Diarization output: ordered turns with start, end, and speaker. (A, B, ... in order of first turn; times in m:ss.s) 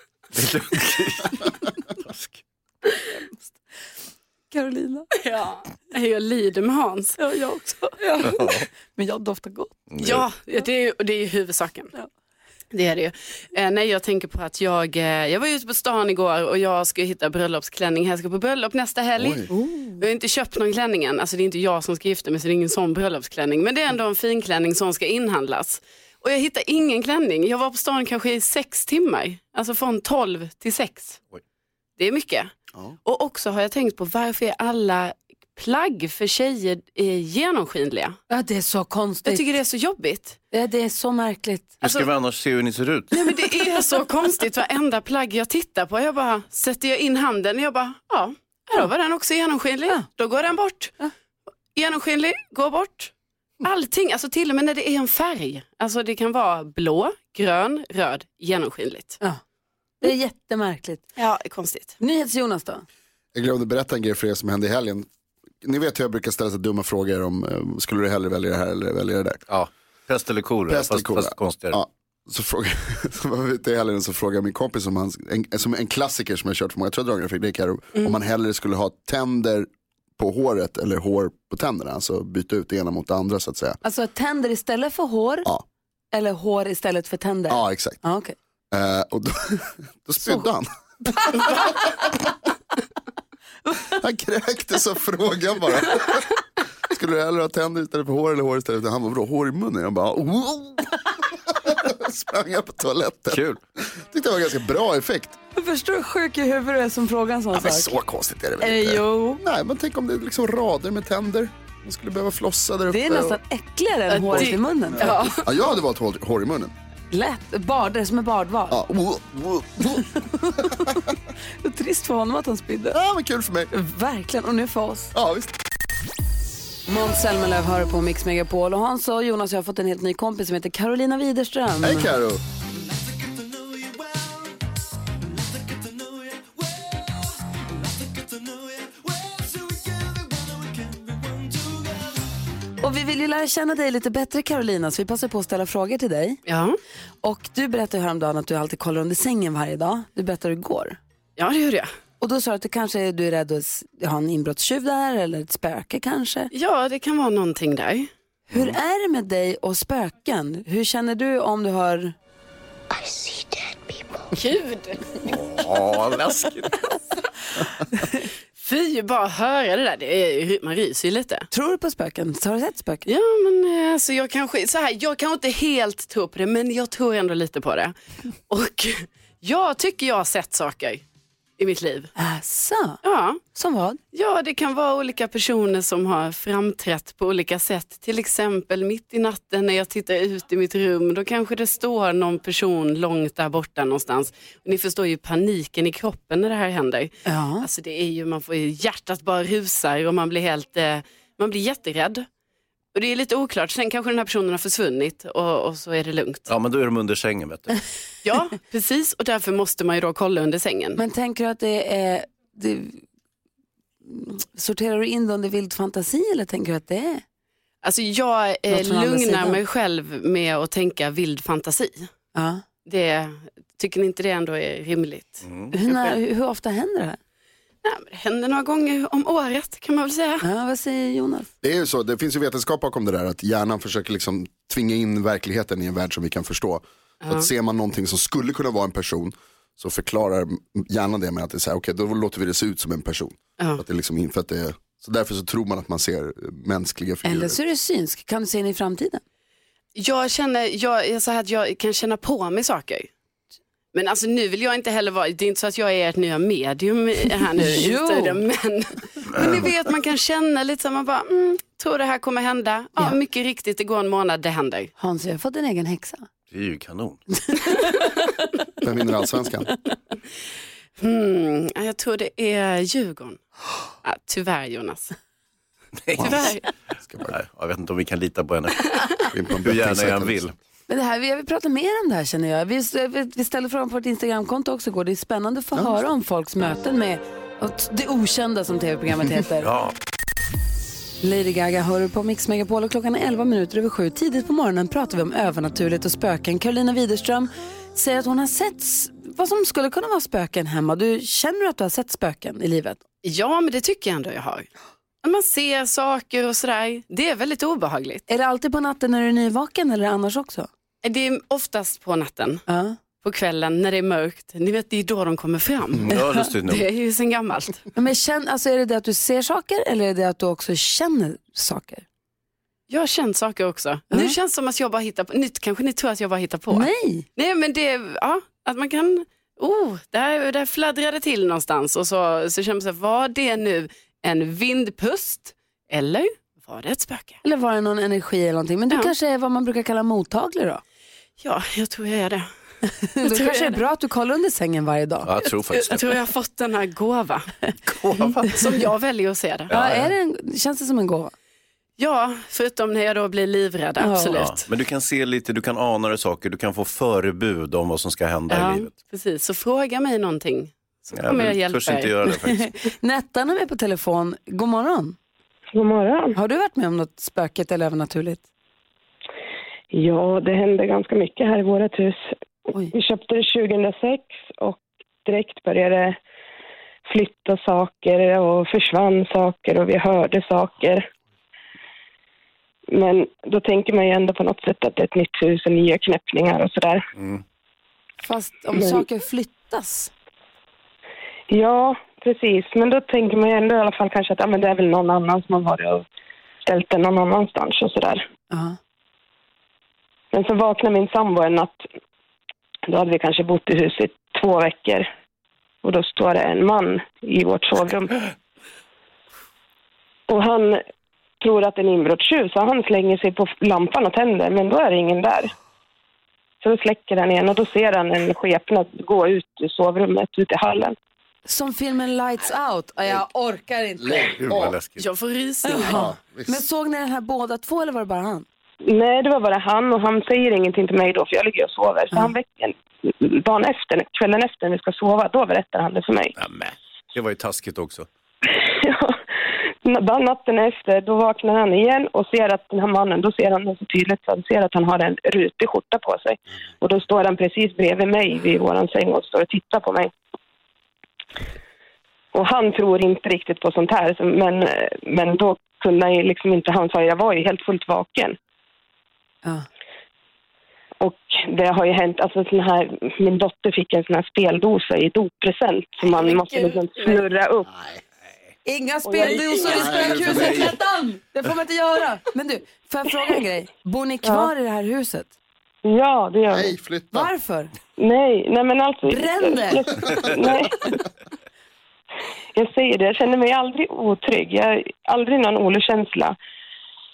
0:00.3-0:02.4 A
0:02.9-0:03.6 B
0:04.5-0:05.1 B
0:05.2-0:07.2 C
0:07.2-0:09.7 B
0:08.2-0:08.7 A
0:09.9-0:10.2 A
0:10.0-0:11.9 C
0:12.7-0:31.2 C
0:19.2-0:19.5 D
0:19.5-0:20.0 B
0:32.0-0:32.5 C
0:33.0-0:38.2 C
0:38.3-0:39.6 B
0:39.2-0:40.4 C
0:40.5-0:41.8 B
0:41.8-0:43.1 A
0:43.2-0:51.0 C
0:51.8-0:59.2 C
1:00.0-1:01.1 B
1:01.2-1:02.0 C
1:02.0-1:02.8 B
1:03.3-1:05.1 D
1:05.6-1:09.4 D
1:09.5-1:11.8 A
1:10.7-1:23.8 D
1:23.8-1:25.5 B
1:26.1-1:28.4 B
1:27.5-1:28.0 D
1:28.7-1:30.7 D
1:30.2-1:30.5 B
1:31.1-1:31.7 B
1:31.3-1:31.6 D
1:33.9-1:36.4 D
1:36.9-1:45.4 D
1:43.3-1:43.6 A
1:45.6-1:48.0 B
1:47.5-1:53.4 D
1:48.6-1:49.4 B
1:52.9-1:55.2 B
1:54.1-1:55.4 C
1:55.0-1:56.7 D
1:57.1-1:58.8 B
1:58.7-2:00.1 D
2:00.2-2:01.0 B
2:01.6-2:03.0 B
2:02.9-2:03.7 D
2:03.7-2:05.1 B
2:05.1-2:05.5 D
2:06.9-2:12.2 B
2:11.8-2:12.4 D
2:22.8-2:26.4 B
2:26.5-2:26.8 C
2:27.2-2:31.0 B
2:31.4-2:31.9 C
2:32.2-2:36.5 B
2:36.5-2:38.1 C
2:38.5-2:42.1 B
2:44.4-2:45.2 C
2:45.3-2:46.8 A
2:48.6-2:51.5 C
2:51.5-2:53.1 B
2:53.1-2:57.9 C
2:58.5-3:01.0 C
3:01.6-3:02.1 C
3:02.2-3:03.0 B
3:03.0-3:03.4 C
3:03.6-3:04.0 B
3:04.1-3:22.2 C
3:17.3-3:17.7 B
3:23.0-3:26.5 C
3:26.5-3:27.8 A
3:28.2-3:31.0 C
3:31.0-3:33.0 B
3:34.0-3:37.2 B
3:37.8-3:42.1 C
3:38.7-3:39.6 B
3:42.4-3:42.6 B
3:42.9-3:46.1 C
3:45.4-3:45.7 A
3:45.7-3:47.2 B
3:47.8-3:50.5 C
3:50.4-3:51.5 B
3:51.6-4:07.6 D
4:07.2-4:09.2 B
4:10.0-4:13.1 C
4:13.9-4:24.9 C
4:17.6-4:18.4 B
4:25.0-4:26.3 B
4:26.5-4:27.2 A
4:27.3-4:28.5 B
4:28.8-4:29.7 D
4:31.0-4:33.4 C
4:34.0-4:35.2 C
4:36.0-4:36.4 A
4:36.2-4:37.3 D
4:36.2-4:36.7 C
4:37.3-4:39.0 A
4:39.3-4:40.5 D
4:39.6-4:40.5 A
4:40.9-4:49.7 B
4:45.8-4:46.0 D
4:49.6-4:50.0 A
4:51.2-5:03.0 B
5:03.2-5:04.7 C
5:05.2-5:08.2 C
5:08.3-5:10.7 B
5:11.0-5:12.6 C
5:12.7-5:13.0 B
5:13.2-5:17.9 C
5:16.0-5:16.9 A
5:16.2-5:16.4 B
5:18.0-5:22.0 B
5:22.9-5:37.4 C
5:26.7-5:27.3 B
5:37.4-5:40.8 B
5:41.4-5:42.5 C
5:42.9-5:45.3 B
5:43.3-5:43.8 C
5:45.2-5:46.2 A
5:45.6-5:47.5 C
5:47.8-5:48.7 A
5:48.5-5:49.7 C
5:49.7-5:50.1 A
5:49.7-5:51.3 B
5:52.0-5:54.7 C
5:54.0-5:54.4 B
5:54.3-5:58.9 A
5:58.5-6:02.2 C
6:01.1-6:02.6 A
6:02.3-6:05.2 B
6:05.7-6:06.4 E
6:06.4-6:08.4 B
6:09.9-6:12.2 E
6:12.9-6:16.2 E
6:17.1-6:21.1 E
6:22.9-6:27.1 E
6:28.2-6:30.1 B
6:28.8-6:29.0 E
6:31.5-6:36.1 E
6:36.6-6:38.2 E
6:38.5-6:38.8 B
6:40.3-6:41.9 E
6:42.9-6:45.1 E
6:45.8-6:48.2 E
6:50.3-6:50.8 E
6:51.4-6:55.5 E
6:56.6-7:01.0 E
7:01.5-7:04.5 B
7:04.0-7:04.8 D
7:04.4-7:05.1 A
7:05.0-7:06.0 C
7:05.7-7:08.4 B
7:05.8-7:06.6 D
7:08.9-7:16.3 E
7:16.4-7:18.1 A
7:18.5-7:19.2 E
7:19.8-7:30.1 E
7:32.3-7:38.4 E
7:41.0-7:47.7 E
7:46.0-7:46.8 B
7:48.6-7:55.3 B
7:49.0-7:49.9 E
7:49.6-7:50.8 D
7:54.2-7:54.5 E
7:55.8-7:56.7 E
7:56.5-7:57.3 D
7:57.1-7:57.8 B
7:58.0-8:00.8 E
7:59.1-7:59.8 B
8:02.6-8:06.4 E